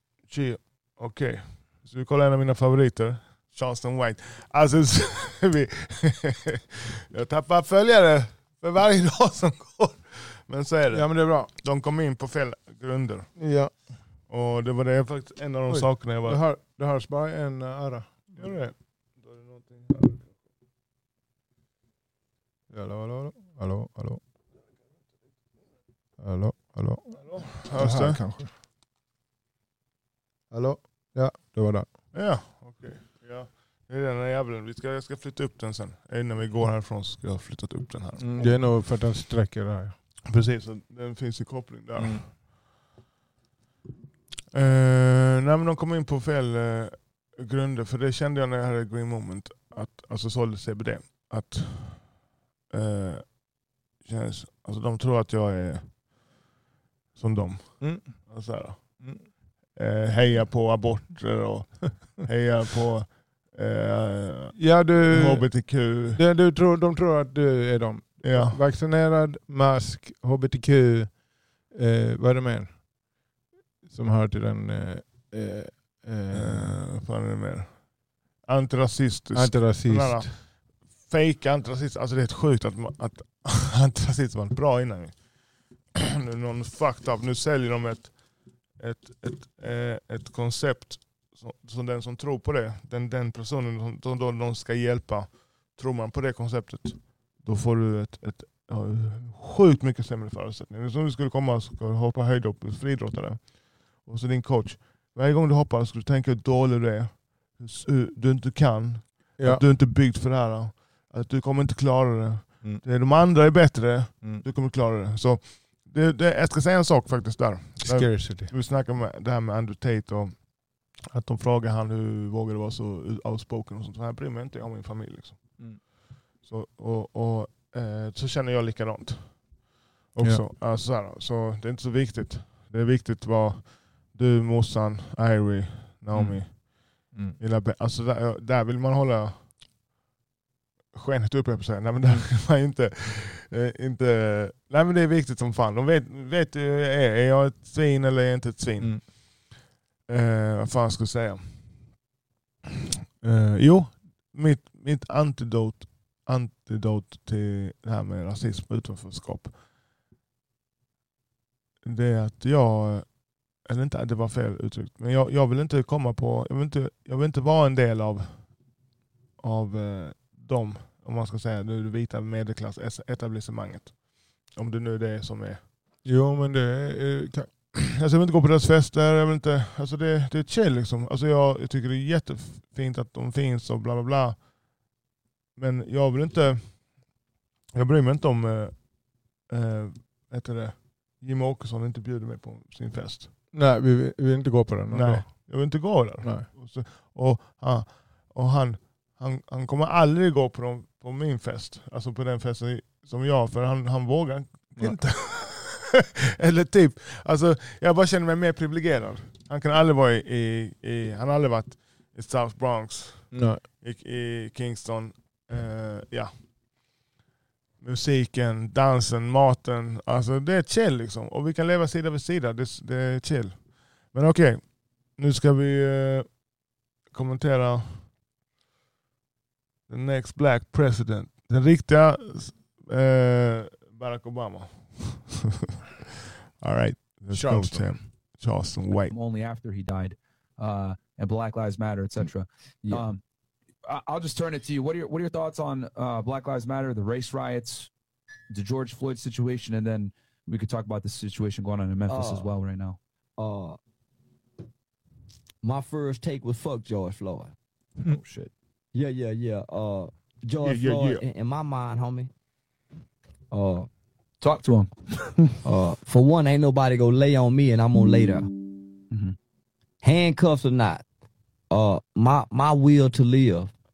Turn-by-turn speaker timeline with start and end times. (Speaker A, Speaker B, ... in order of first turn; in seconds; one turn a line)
Speaker A: 0.2-13.3
Speaker B: 10.9-11.5
Speaker B: 13.4-13.7
Speaker A: 14.3-16.4
Speaker B: 15.7-18.6
Speaker A: 18.4-20.3
Speaker B: 22.7-24.2
Speaker B: 26.2-28.5
Speaker A: 27.2-28.2
Speaker B: 30.5-31.9
Speaker A: 32.1-38.8
Speaker B: 38.2-39.9
Speaker A: 40.3-42.3
Speaker B: 42.0-42.2
Speaker A: 44.5-52.2
Speaker A: 52.7-53.4
Speaker A: 54.0-55.9
Speaker A: 57.1-59.0
Speaker B: 57.8-58.3
Speaker A: 59.8-66.2
Speaker B: 64.5-72.8
Speaker A: 68.2-68.6
Speaker B: 73.8-76.7
Speaker A: 76.3-77.9
Speaker A: 78.4-85.2
Speaker B: 79.3-80.3
Speaker A: 86.0-88.2
Speaker A: 88.8-125.8
Speaker B: 117.8-118.5
Speaker A: 126.4-129.5
Speaker A: 130.1-139.4
Speaker A: 140.9-149.5
Speaker A: 150.1-151.4
Speaker A: 153.2-159.5
Speaker A: 161.8-168.5
Speaker A: 169.4-175.6
Speaker B: 176.0-177.5
Speaker A: 177.7-184.4
Speaker A: 185.6-186.8
Speaker A: 187.7-188.9
Speaker A: 189.5-193.3
Speaker B: 193.5-195.7
Speaker A: 194.9-216.3
Speaker B: 196.2-196.5
Speaker B: 213.3-213.6
Speaker A: 217.8-226.4
Speaker A: 227.1-228.0
Speaker A: 229.9-235.7
Speaker A: 236.6-239.1
Speaker B: 237.3-237.9
Speaker C: 239.1-243.2
Speaker C: 243.8-247.9
Speaker C: 248.5-253.0
Speaker D: 252.1-252.5
Speaker D: 253.4-253.8
Speaker D: 255.6-257.5
Speaker C: 258.1-258.5
Speaker D: 258.9-262.3
Speaker A: 260.6-261.2
Speaker D: 263.5-263.9
Speaker C: 264.4-265.5
Speaker D: 265.6-268.5
Speaker C: 269.1-269.4
Speaker D: 270.0-271.0
Speaker D: 271.7-273.7